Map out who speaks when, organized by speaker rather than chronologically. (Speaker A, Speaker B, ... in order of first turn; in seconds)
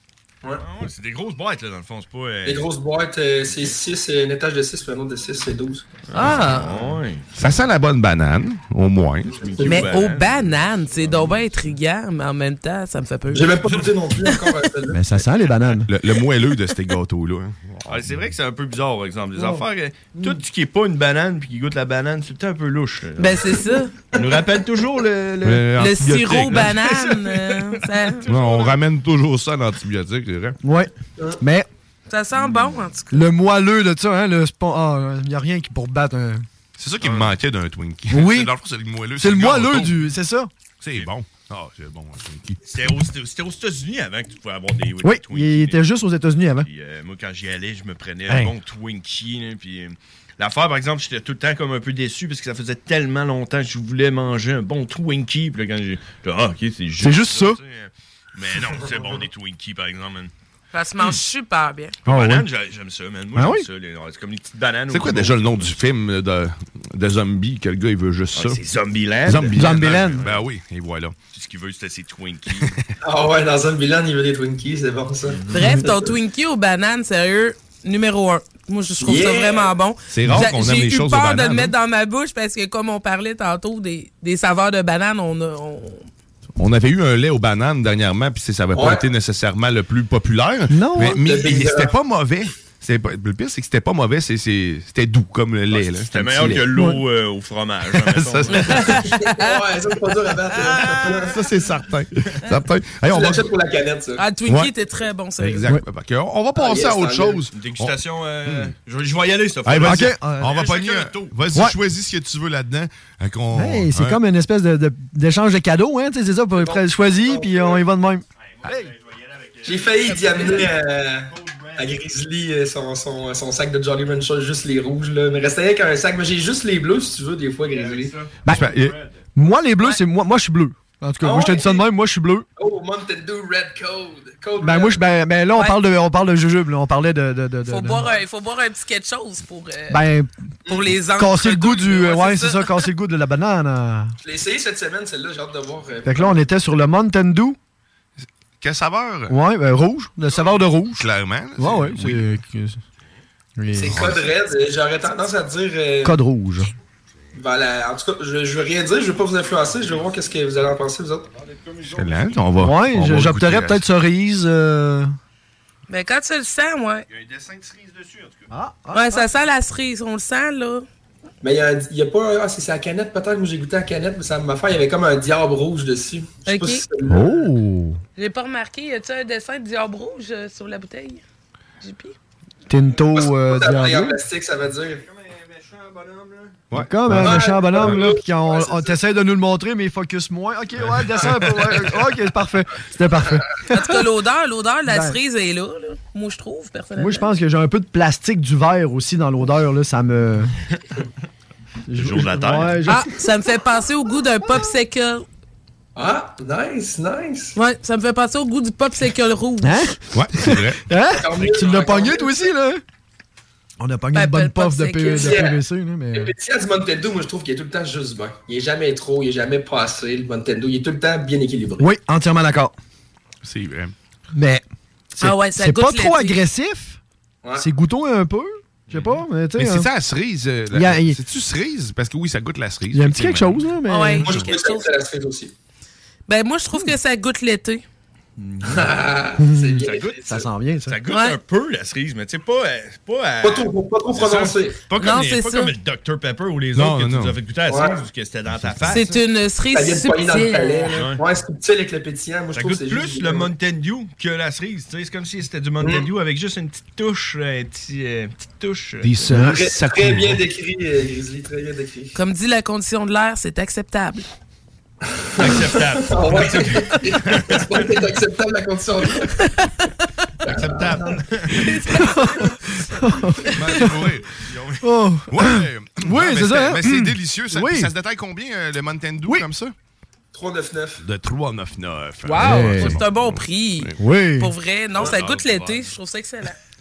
Speaker A: 0.6-2.7, 3.5-3.8, 6.1-7.3, 9.2-11.4, 17.9-25.7, 26.5-27.6, 28.2-28.8, 32.4-32.8, 37.0-37.4, 42.6-45.9, 46.6-60.3, 62.0-65.8, 68.3-70.5, 71.3-72.7, 75.3-75.6, 95.7-98.8, 107.5-111.3, 118.6-120.3, 121.3-122.0, 127.7-129.2, 159.7-160.2, 161.4-162.4, 167.1-168.4, 185.0-186.6, 202.0-202.9, 228.9-229.2, 238.4-238.9, 239.8-249.2, 250.9-251.2, 252.6-259.2, 265.4-268.0, 270.7-271.6, 274.4-274.9, 285.0-285.9
Speaker B: 2.5-5.9, 13.3-15.2, 73.0-75.4, 79.0-79.7, 88.7-89.0, 91.2-91.9, 98.9-101.3, 103.0-104.2, 106.5-107.4, 116.6-117.8, 119.7-128.1, 131.2-131.8, 132.6-135.0, 144.2-146.4, 153.8-156.2, 157.4-161.3, 171.4-177.4, 183.0-185.0, 187.2-189.0, 206.0-207.5, 211.2-212.4, 215.0-215.6, 216.1-221.8, 234.2-235.5, 238.7-240.3, 243.4-244.8, 247.7-248.0, 249.7-253.5, 255.8-256.1, 259.4-262.1, 265.2-269.3, 270.4-271.2, 280.3-281.0
Speaker C: 6.1-6.9, 9.7-13.5, 23.2-24.1, 25.7-28.3, 32.1-33.3, 60.7-62.0, 75.5-86.1, 98.5-99.6, 104.2-105.7, 120.2-120.7, 135.5-135.8, 137.7-140.0, 140.7-142.9, 165.9-167.0, 168.9-170.8, 176.4-176.8, 178.2-181.2, 181.8-182.2, 193.7-197.3, 202.9-205.2, 207.6-209.8, 214.1-215.3, 225.2-226.4, 233.9-234.9, 236.3-237.8, 241.1-241.4, 245.0-245.7, 248.9-250.9, 262.1-264.2, 271.6-272.5, 282.2-286.6
Speaker D: 7.4-9.3, 15.9-18.2, 25.4-26.8, 28.2-30.6, 36.8-40.0, 40.8-42.6, 64.9-68.6, 69.2-71.2, 80.1-81.8, 86.6-96.7, 98.0-98.9, 101.1-103.5, 104.5-104.7, 105.4-108.7, 109.7-114.2, 128.5-128.9, 148.6-149.3, 150.9-152.2, 153.9-154.3, 161.9-163.8, 186.7-187.4, 210.1-210.8, 223.4-223.9, 229.6-233.6, 246.8-247.4, 259.0-260.4, 270.6-271.0, 273.5-274.3, 275.3-279.7, 281.0-283.9, 285.0-285.4
Speaker E: 14.9-15.9, 19.4-20.4, 30.6-31.7, 33.1-36.5, 38.1-38.5, 39.2-40.5, 45.0-46.7, 48.3-48.5, 57.0-57.6, 62.1-62.5, 63.4-63.7, 69.5-70.2, 90.7-91.2, 96.7-97.0, 109.8-110.6, 113.5-118.8, 128.4-132.4, 134.6-138.1, 139.9-140.3, 141.2-144.1, 146.1-147.6, 149.3-151.0, 151.6-152.8, 153.6-154.1, 156.0-156.7, 162.6-165.2, 168.5-169.3, 177.1-178.0, 182.7-184.2, 186.7-193.7, 194.9-195.2, 197.0-200.5, 201.9-203.1, 209.6-212.8, 213.8-216.3, 221.8-222.7, 224.3-224.6, 225.2-227.0, 227.6-229.9, 230.7-231.2, 232.9-234.3, 239.4-241.0, 248.9-249.1, 259.3-259.7, 271.9-274.0, 274.8-277.9, 282.4-283.0, 284.0-284.5